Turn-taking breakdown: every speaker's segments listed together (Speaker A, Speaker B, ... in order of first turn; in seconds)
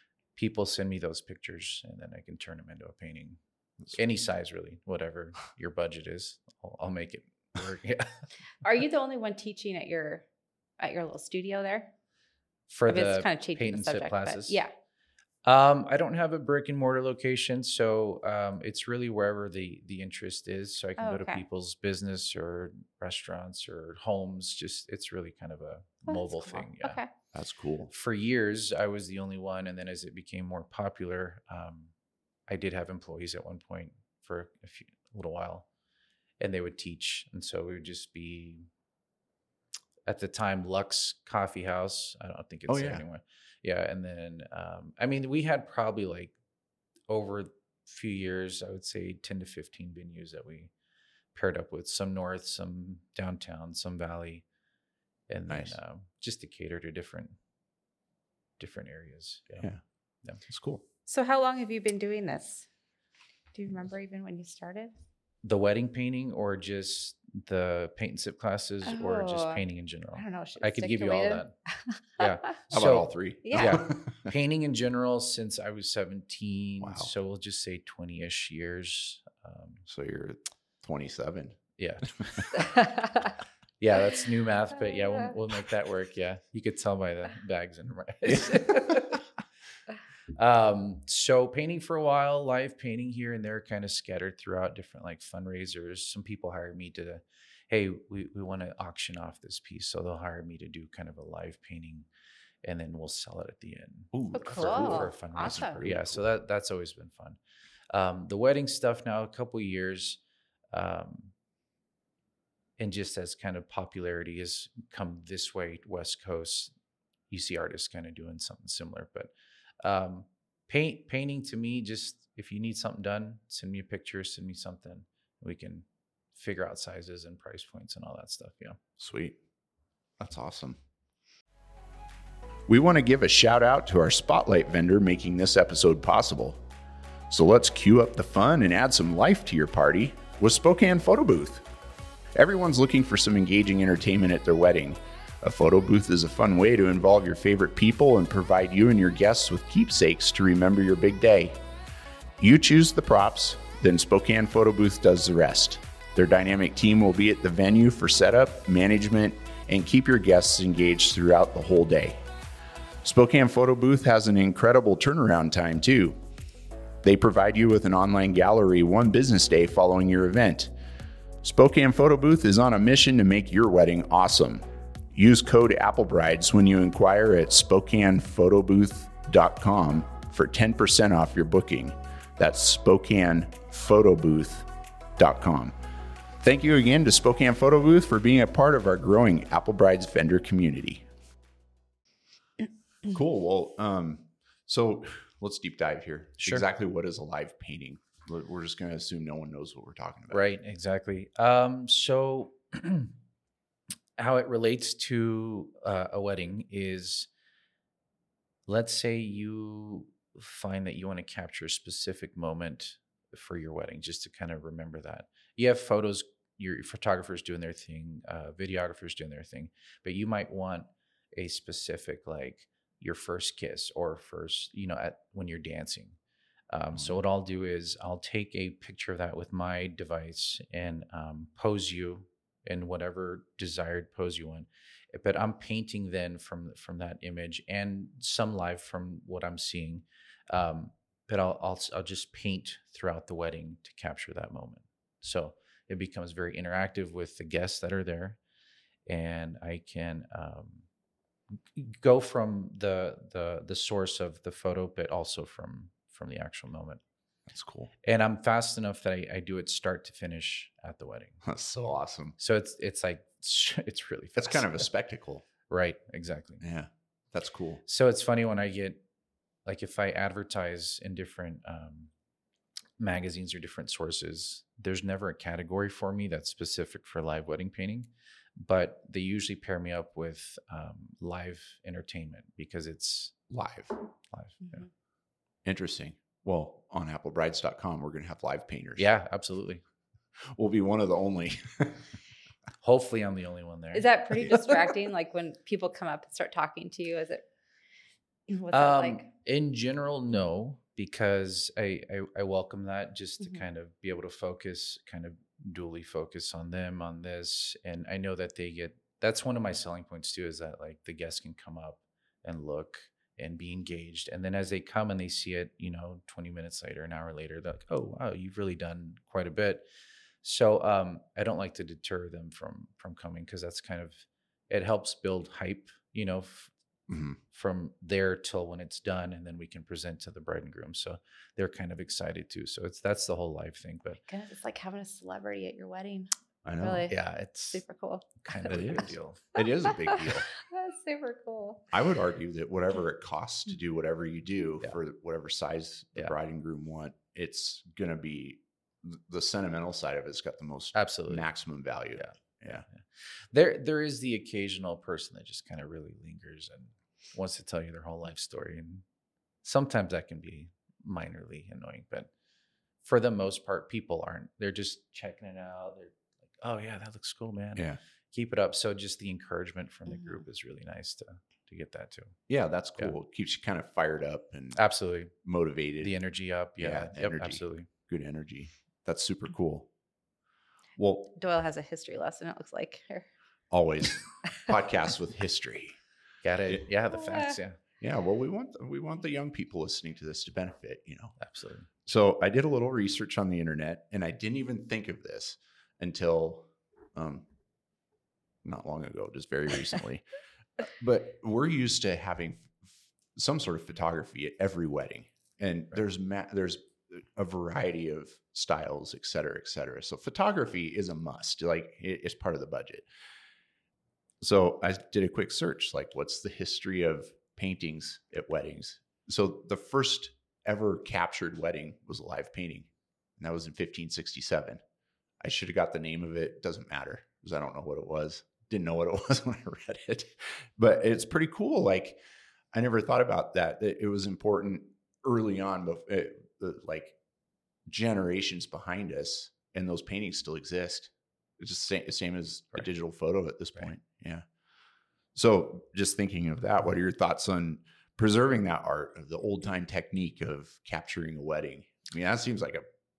Speaker A: 0.4-3.4, 3.9-8.3, 12.7-14.6, 15.4-27.0, 27.9-31.9, 32.5-35.7, 36.4-38.7, 40.1-46.4, 47.1-50.7, 51.3-54.5, 55.3-57.4, 58.6-59.7, 65.4-71.5, 72.2-79.9, 81.8-83.0, 83.8-89.2, 90.3-102.1, 102.6-107.4, 107.9-110.2, 110.7-111.3, 112.8-116.7, 117.3-128.8, 196.4-196.7, 200.3-203.1, 204.2-207.3, 208.7-226.2, 226.7-248.4, 249.1-250.9, 251.7-257.0, 258.0-261.4, 262.4-264.9, 265.7-266.6, 267.9-269.0, 269.6-272.1, 273.0-283.4, 284.3-284.9, 289.0-289.8, 292.8-294.8, 298.7-319.9, 320.4-326.7, 327.5-334.2, 337.1-337.8, 338.4-339.4, 350.9-351.4, 352.9-359.0, 359.6-362.3, 363.0-372.4, 374.8-375.3, 376.0-377.9, 386.4-387.8, 391.4-391.9
Speaker B: 8.6-10.2, 10.8-11.9, 12.9-14.7, 21.0-21.4, 26.1-27.1, 61.1-62.7, 63.5-64.9, 68.8-72.3, 73.5-73.9, 82.6-83.3, 104.3-105.8, 293.9-297.4, 298.5-299.3, 334.3-337.2, 337.7-341.9, 370.1-370.4, 381.4-383.3, 387.1-387.6
Speaker C: 27.3-27.9, 42.7-43.0, 55.5-55.8, 60.5-60.8, 72.7-74.3, 76.8-77.1, 79.9-81.6, 88.3-88.6, 104.1-106.2, 129.0-129.4, 130.2-130.8, 132.7-136.6, 137.3-141.7, 142.3-151.6, 152.4-162.2, 163.0-166.2, 167.0-170.7, 171.4-174.6, 175.1-185.8, 186.4-191.1, 193.0-200.4, 257.5-257.9, 261.4-262.4, 264.4-265.5, 266.6-267.8, 283.5-283.9, 285.6-289.1, 290.4-292.1, 327.1-327.4, 336.6-337.1, 338.7-340.5, 341.9-352.9, 372.5-374.8, 375.4-376.1, 376.8-379.9, 381.0-381.3, 383.7-386.0, 388.0-391.4, 392.1-397.5, 398.6-400.2, 400.8-413.1, 414.4-424.8, 425.4-432.2, 432.7-437.2, 437.9-444.4, 445.3-452.8